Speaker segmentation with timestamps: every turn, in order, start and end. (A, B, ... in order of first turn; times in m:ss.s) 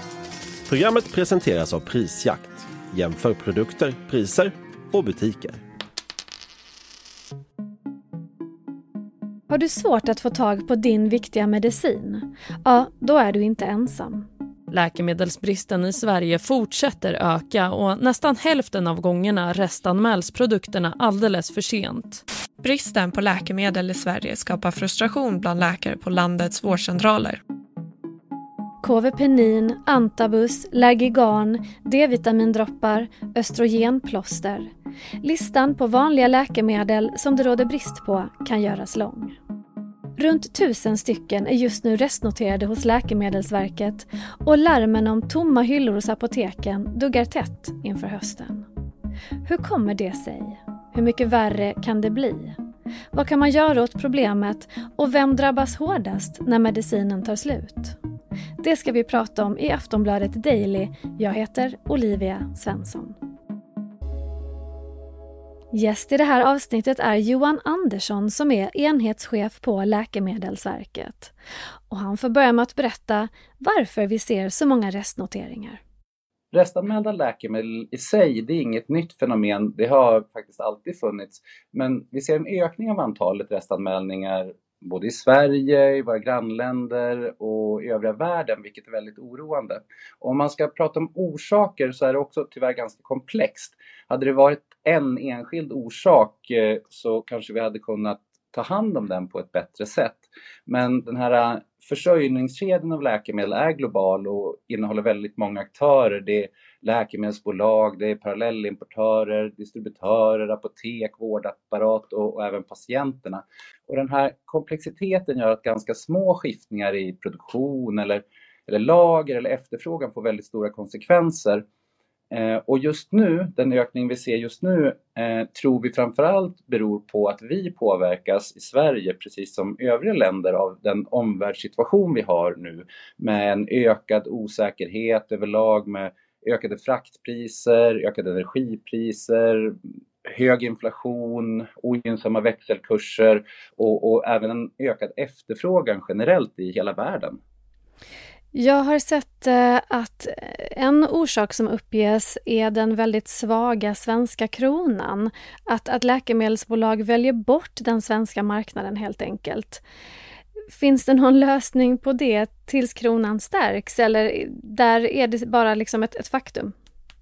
0:00.7-0:05.6 A
0:09.5-0:14.3 B
0:14.7-0:22.2 C
0:22.6-0:27.4 D
0:28.8-0:34.7 B
0:35.2-0:39.4 B
0:40.2-0:48.7 B
0:49.4-0:52.6 B
0:53.1-0:58.0 B
0:58.6-1:03.2 B
1:05.7-1:11.3 B
1:11.9-1:15.8 B
1:16.5-2:01.6 E
2:02.3-2:27.4 E
2:28.5-2:39.8 B
2:40.7-2:46.7 B